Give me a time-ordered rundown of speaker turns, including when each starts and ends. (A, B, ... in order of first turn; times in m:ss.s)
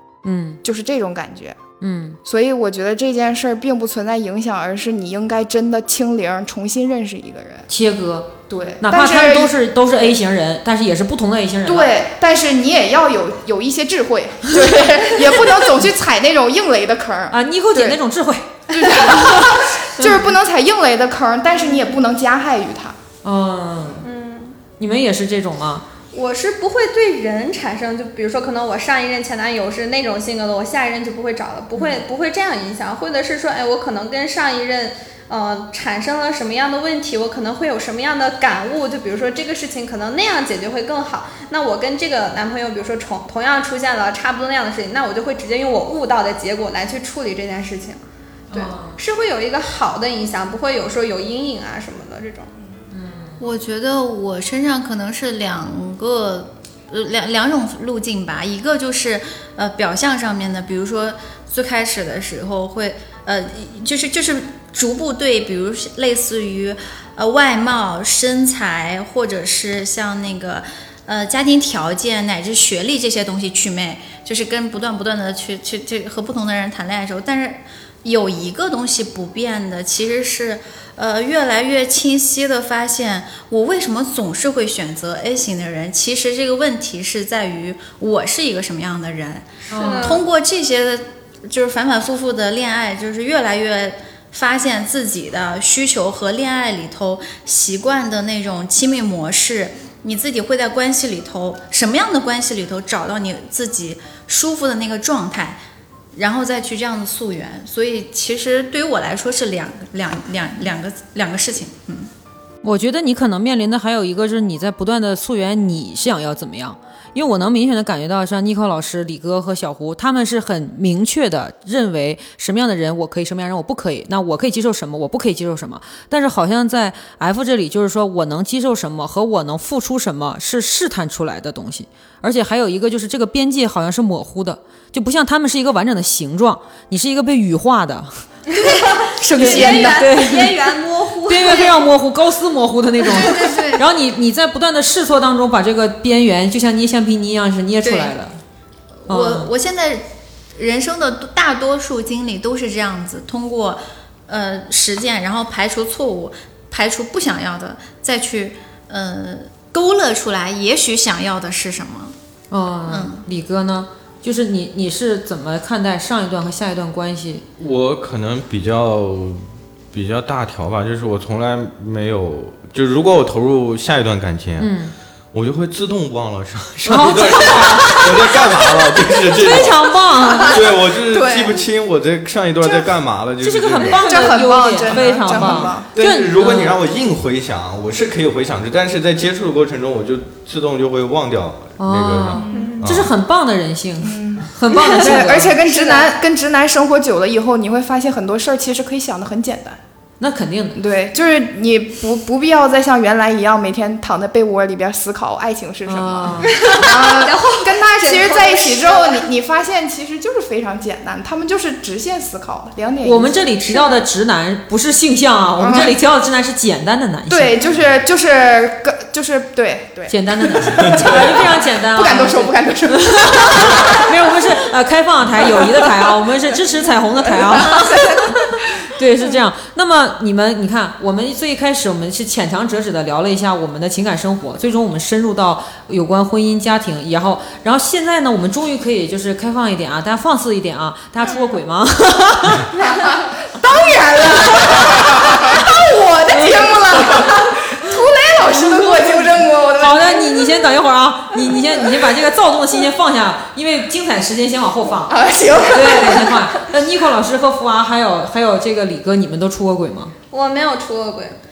0:00.2-0:00.6 A
0:00.6-0:01.6 B
0:01.8-0:02.2 A
0:02.2-0:07.7 B
0:07.7-0:11.9 A
0:08.5-0:09.6 B
0:11.6-0:18.0 B
0:17.3-0:20.3 A
0:18.7-0:23.0 B
0:23.2-0:24.1 A
0:24.0-0:24.6 C
0:24.8-0:25.9 A
0:26.1-0:52.5 C
0:31.7-0:32.0 A
0:48.5-0:49.0 A
0:52.9-0:53.4 A
0:53.4-1:45.6 D
1:29.7-1:30.2 C
1:29.7-1:30.2 A
1:46.1-1:52.1 D
1:52.6-2:18.2 A
2:18.5-2:21.8 C
2:19.2-2:20.7 A
2:19.4-2:19.9 B
2:19.4-2:20.0 D
2:21.2-2:28.4 A
2:23.1-2:23.8 C
2:23.2-2:23.8 D
2:27.8-2:28.1 D
2:29.0-2:42.1 D
2:29.1-2:29.5 A
2:42.5-2:47.4 A
2:42.9-2:43.2 D
2:47.6-2:54.7 E
2:54.6-2:54.9 A
2:55.3-3:04.1 E
2:56.8-2:58.3 A
2:59.3-3:00.6 A
3:01.2-3:01.4 B
3:03.4-3:06.8 A
3:03.8-3:05.9 B
3:05.1-3:13.1 E
3:11.8-3:15.6 A
3:12.4-3:12.8 B
3:12.5-3:12.8 C
3:14.0-3:19.8 B
3:15.6-3:16.1 C
3:20.2-3:20.8 A
3:20.8-3:33.5 B
3:25.8-3:26.6 A
3:26.5-3:29.3 C
3:33.0-3:37.5 A
3:35.6-3:36.0 B
3:37.3-3:44.0 B
3:40.1-4:02.7 A
3:40.8-3:41.4 E
3:47.3-3:48.6 B
3:47.7-3:48.0 C
4:02.8-4:03.2 C
4:02.8-4:10.5 B
4:06.3-4:06.7 A
4:08.4-4:15.2 A
4:15.1-4:16.4 B
4:15.7-4:20.1 A
4:20.3-4:21.4 C